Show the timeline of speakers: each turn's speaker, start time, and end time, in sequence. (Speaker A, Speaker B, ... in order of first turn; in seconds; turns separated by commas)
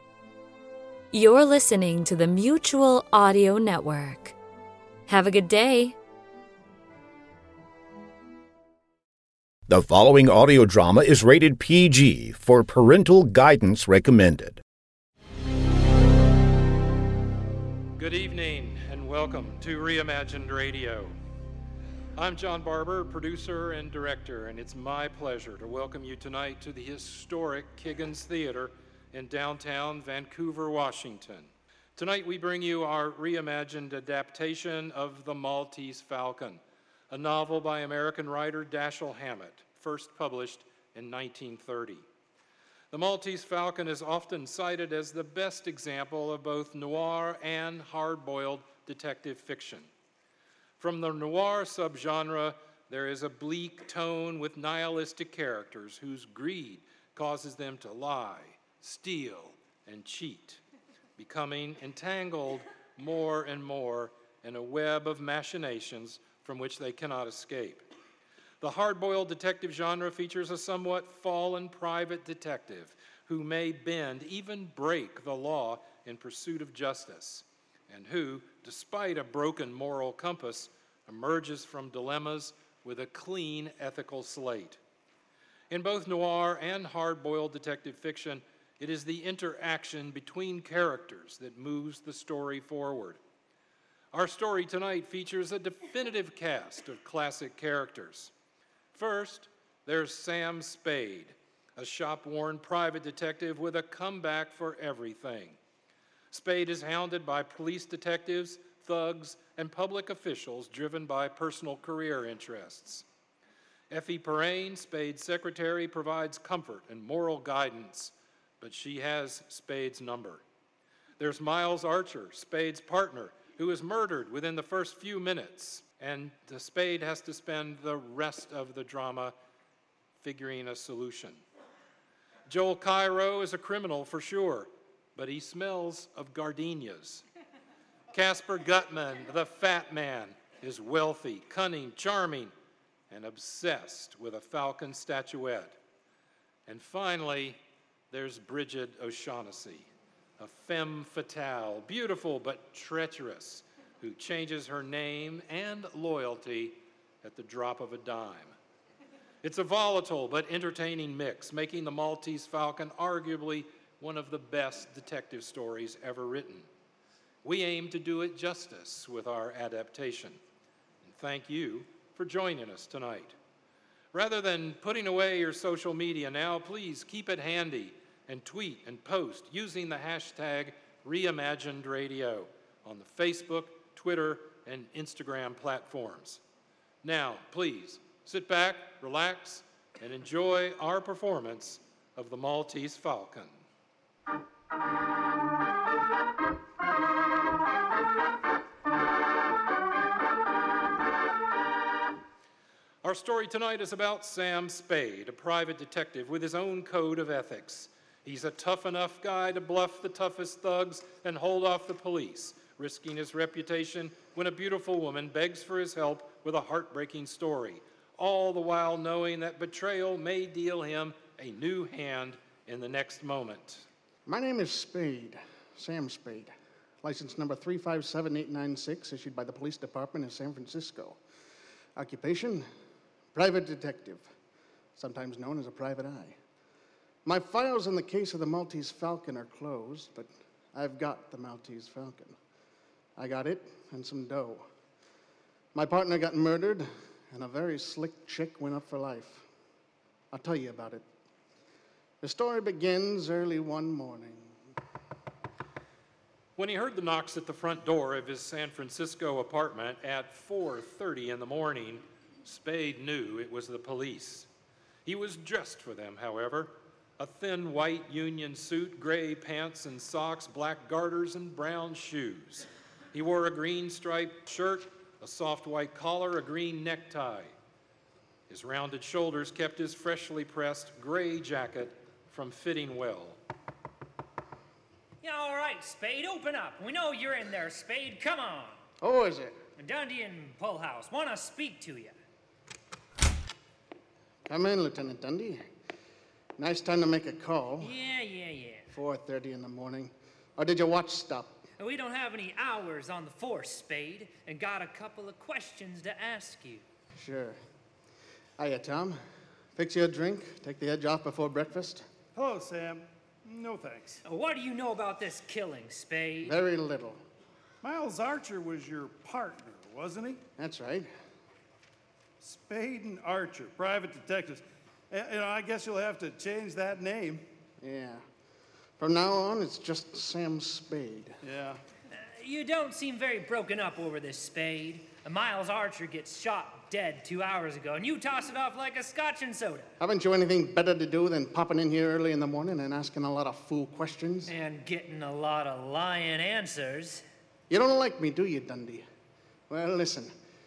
Speaker A: 1.1-4.4, Speaker A: 5.1-6.0, Speaker B: 9.7-14.6, Speaker C: 18.0-21.1, Speaker C: 22.2-42.0, Speaker C: 42.9-49.9, Speaker C: 50.8-60.6, Speaker C: 61.2-67.8, Speaker C: 68.6-84.8, Speaker C: 85.7-93.2, Speaker C: 94.1-98.3, Speaker C: 98.9-105.6, Speaker C: 106.3-113.0, Speaker C: 113.9-120.4, Speaker C: 121.2-129.3, Speaker C: 130.2-131.4, Speaker C: 132.5-137.2, Speaker C: 138.1-142.5, Speaker C: 143.1-145.8, Speaker C: 146.7-147.6, Speaker C: 148.1-149.9, Speaker C: 150.4-158.6, Speaker C: 159.4-166.7, Speaker C: 167.4-170.4, Speaker C: 171.0-173.3, Speaker C: 174.1-186.4, Speaker C: 187.0-193.6, Speaker C: 203.0-223.9, Speaker D: 224.3-231.2, Speaker D: 232.0-232.7, Speaker D: 233.3-234.3, Speaker D: 235.0-236.4, Speaker D: 237.2-242.4, Speaker D: 243.2-244.7, Speaker D: 245.7-249.5, Speaker D: 250.3-251.0, Speaker D: 252.2-254.6, Speaker C: 256.6-264.5, Speaker C: 265.1-277.5, Speaker C: 278.5-283.4, Speaker E: 285.2-288.8, Speaker D: 289.0-289.6, Speaker E: 289.8-292.1, Speaker D: 294.5-295.6, Speaker D: 296.6-298.0, Speaker E: 297.8-298.9, Speaker D: 298.9-301.6, Speaker E: 301.8-306.8, Speaker D: 307.2-307.6, Speaker D: 308.6-309.2, Speaker D: 309.8-312.1, Speaker F: 312.4-314.2, Speaker E: 314.2-316.6, Speaker D: 316.4-317.2, Speaker F: 317.8-320.4, Speaker D: 320.6-321.1, Speaker F: 322.4-327.4, Speaker D: 327.8-328.2, Speaker D: 329.0-331.4, Speaker F: 331.4-331.8, Speaker E: 332.1-339.9, Speaker D: 340.0-344.5, Speaker E: 344.5-347.2, Speaker D: 347.7-349.1, Speaker D: 349.7-350.3